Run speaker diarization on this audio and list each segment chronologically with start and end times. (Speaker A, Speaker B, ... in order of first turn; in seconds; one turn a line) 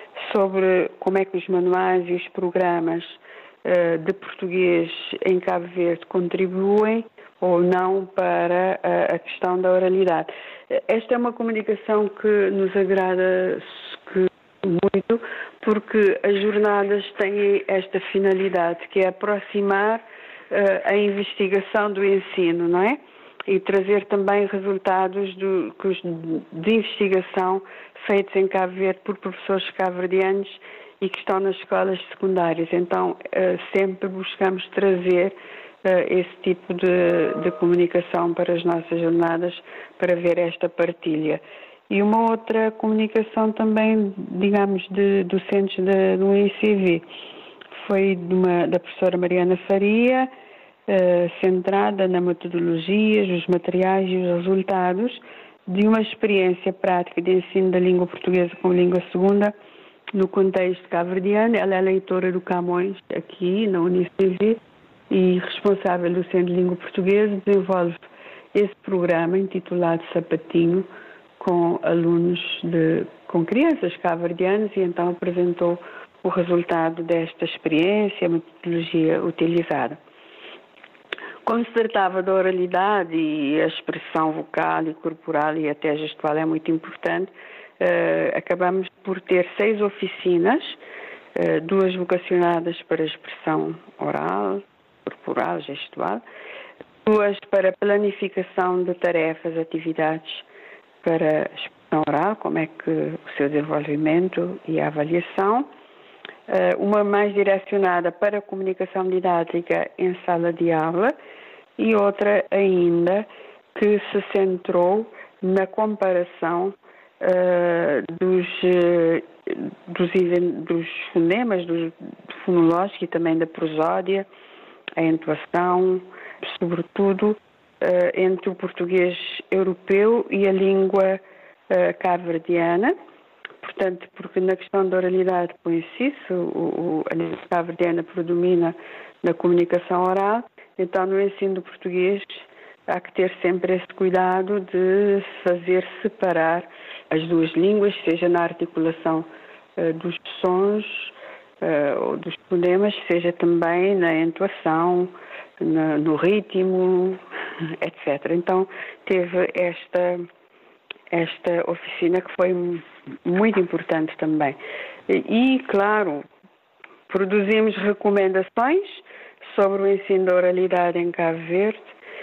Speaker A: 0.2-47.0
Speaker A: 47.8-50.3
Speaker A: 50.9-59.5
Speaker A: 60.1-64.6
Speaker A: 65.1-68.0
Speaker A: 68.5-70.8
Speaker A: 71.4-80.0
Speaker A: 81.4-90.8
Speaker A: 91.3-96.2
Speaker A: 97.0-100.5
Speaker A: 101.0-105.7
Speaker A: 106.5-111.1
Speaker A: 111.8-124.3
Speaker A: 125.0-132.9
Speaker A: 133.6-149.2
Speaker A: 149.8-157.2
Speaker A: 157.8-160.2
Speaker A: 161.1-164.6
Speaker A: 165.1-166.2
Speaker A: 167.1-171.9